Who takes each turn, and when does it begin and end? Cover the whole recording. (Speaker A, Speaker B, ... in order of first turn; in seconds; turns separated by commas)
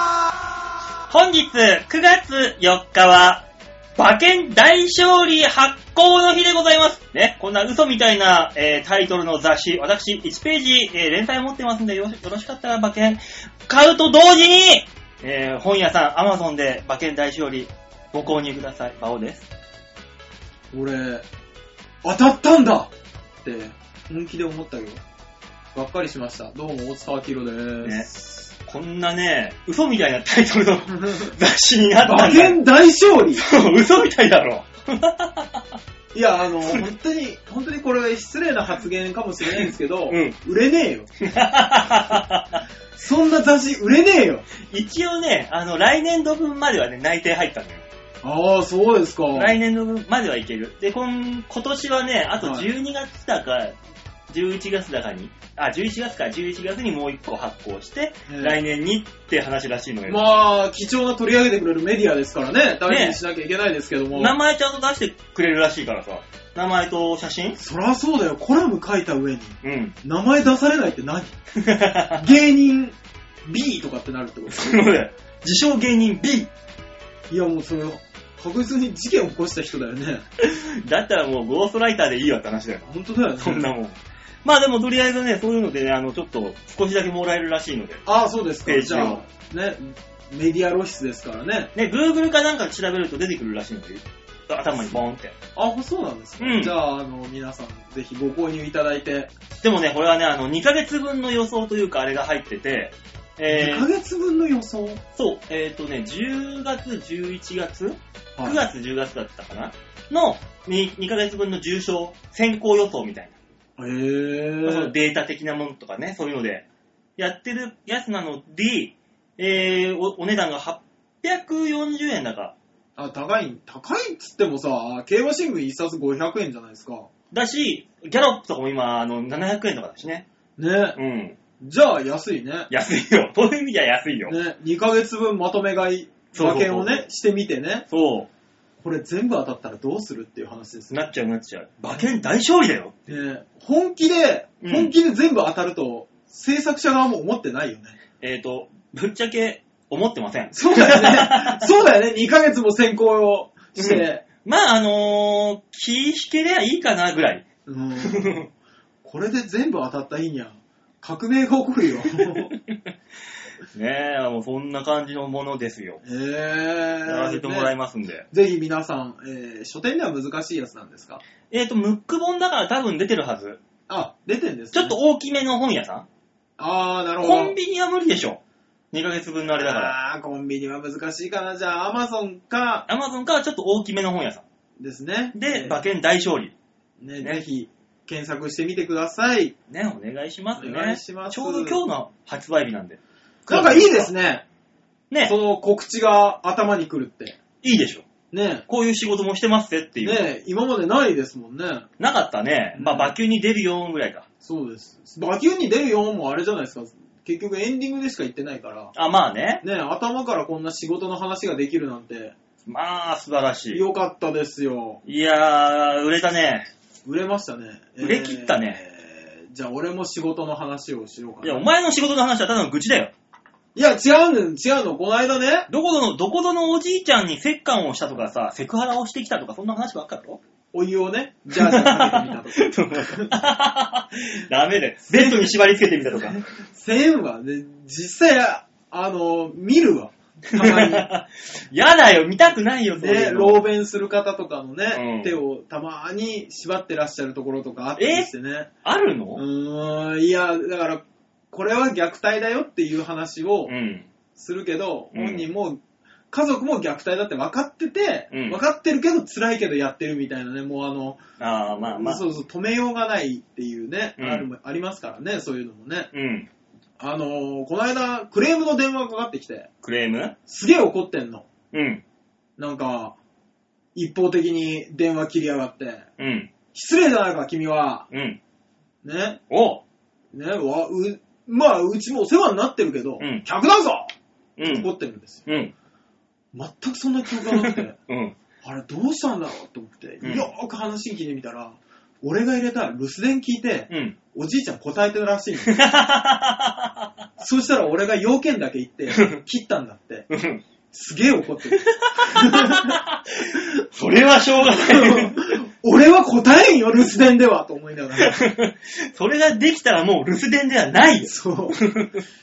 Speaker A: 1.1-3.4, Speaker A: 4.0-19.4, Speaker B: 20.7-21.2, Speaker B: 22.0-22.9, Speaker B: 23.4-25.0, Speaker B: 25.7-28.4, Speaker A: 28.6-32.6, Speaker B: 30.9-31.3, Speaker B: 32.0-33.4, Speaker A: 33.4-35.6, Speaker B: 36.1-41.1, Speaker A: 39.4-40.3, Speaker A: 41.2-42.6, Speaker B: 43.0-44.5, Speaker A: 44.6-47.8, Speaker B: 48.2-49.6, Speaker A: 49.3-53.8, Speaker B: 52.4-52.7, Speaker A: 54.3-60.2, Speaker B: 58.3-58.6, Speaker B: 60.1-64.3, Speaker A: 62.9-63.2, Speaker A: 64.1-67.6, Speaker B: 67.6-71.3, Speaker A: 69.6-69.9, Speaker A: 71.5-72.2, Speaker B: 72.2-72.9, Speaker B: 73.5-74.8, Speaker A: 74.5-76.5, Speaker B: 77.3-80.2, Speaker A: 80.4-88.0, Speaker B: 82.9-83.7, Speaker B: 88.0-91.7, Speaker A: 88.6-89.2, Speaker A: 91.7-95.3, Speaker B: 95.5-99.3, Speaker A: 96.4-96.8, Speaker A: 99.6-103.9, Speaker B: 103.5-105.0, Speaker A: 105.1-113.3, Speaker B: 108.4-108.6, Speaker B: 113.8-114.9, Speaker A: 114.7-116.6, Speaker A: 117.2-122.5, Speaker B: 123.0-127.1, Speaker A: 127.3-130.2, Speaker B: 130.6-131.0, Speaker A: 130.9-131.4, Speaker B: 131.6-132.7, Speaker A: 132.7-134.3, Speaker B: 134.3-137.8, Speaker A: 136.3-137.0, Speaker A: 137.9-138.3, Speaker B: 138.8-141.0, Speaker A: 140.9-142.9, Speaker B: 143.1-148.0, Speaker A: 144.6-144.9, Speaker A: 148.2-151.6, Speaker B: 150.5-154.2, Speaker A: 153.8-157.4, Speaker B: 157.7-158.5, Speaker A: 158.0-158.4, Speaker B: 159.0-162.5, Speaker A: 163.7-166.0, Speaker B: 166.0-167.7, Speaker A: 167.1-168.3, Speaker B: 168.3-171.2, Speaker A: 171.5-173.6, Speaker B: 173.9-174.9, Speaker A: 174.7-176.1, Speaker B: 176.6-177.5, Speaker A: 177.2-178.4, Speaker A: 178.9-179.9, Speaker B: 179.6-182.8, Speaker A: 182.9-184.4, Speaker B: 184.8-185.8, Speaker A: 185.3-186.5, Speaker B: 187.0-189.5, Speaker A: 189.7-194.1, Speaker B: 190.6-191.8, Speaker B: 193.5-194.4, Speaker B: 195.2-197.4, Speaker A: 197.6-198.0, Speaker B: 198.3-198.6, Speaker A: 198.7-200.3, Speaker B: 200.0-201.9, Speaker A: 202.0-204.2, Speaker B: 202.7-203.1, Speaker B: 204.4-208.9, Speaker A: 208.9-209.6, Speaker B: 209.6-212.3, Speaker A: 212.7-213.8, Speaker B: 213.7-215.0, Speaker A: 215.0-216.7, Speaker B: 217.0-221.7, Speaker A: 218.0-218.8, Speaker A: 221.4-223.1, Speaker B: 223.7-225.7, Speaker A: 225.7-230.4, Speaker B: 230.7-233.3, Speaker A: 231.6-236.4, Speaker B: 235.1-235.6, Speaker B: 236.1-241.1, Speaker A: 240.6-243.7, Speaker B: 243.0-248.7, Speaker A: 244.9-245.4, Speaker A: 248.0-248.3, Speaker A: 248.8-249.4, Speaker B: 249.3-253.7, Speaker A: 253.7-254.1, Speaker B: 254.3-255.8, Speaker A: 255.1-255.4, Speaker B: 256.3-261.2, Speaker A: 258.3-258.6, Speaker A: 261.4-262.2, Speaker B: 261.8-266.1, Speaker A: 264.2-264.5, Speaker A: 266.1-266.5, Speaker B: 267.0-269.7, Speaker A: 269.8-270.3, Speaker B: 270.5-271.5, Speaker A: 271.7-272.0, Speaker B: 272.6-273.1, Speaker B: 273.9-276.1, Speaker A: 276.2-276.5, Speaker B: 276.7-278.1, Speaker A: 278.1-278.4, Speaker B: 279.0-279.4, Speaker A: 279.5-279.8, Speaker B: 280.3-284.1, Speaker A: 284.6-284.9, Speaker B: 284.6-285.4, Speaker A: 285.4-285.7, Speaker B: 286.5-287.9, Speaker A: 287.4-288.3, Speaker B: 288.6-295.8, Speaker A: 290.2-290.5, Speaker A: 293.9-294.1, Speaker A: 295.6-297.0, Speaker B: 297.4-300.3, Speaker A: 299.1-299.4, Speaker A: 300.3-300.6, Speaker B: 300.9-303.0, Speaker A: 301.8-305.4, Speaker B: 304.7-308.4, Speaker A: 308.2-312.2, Speaker B: 311.2-311.8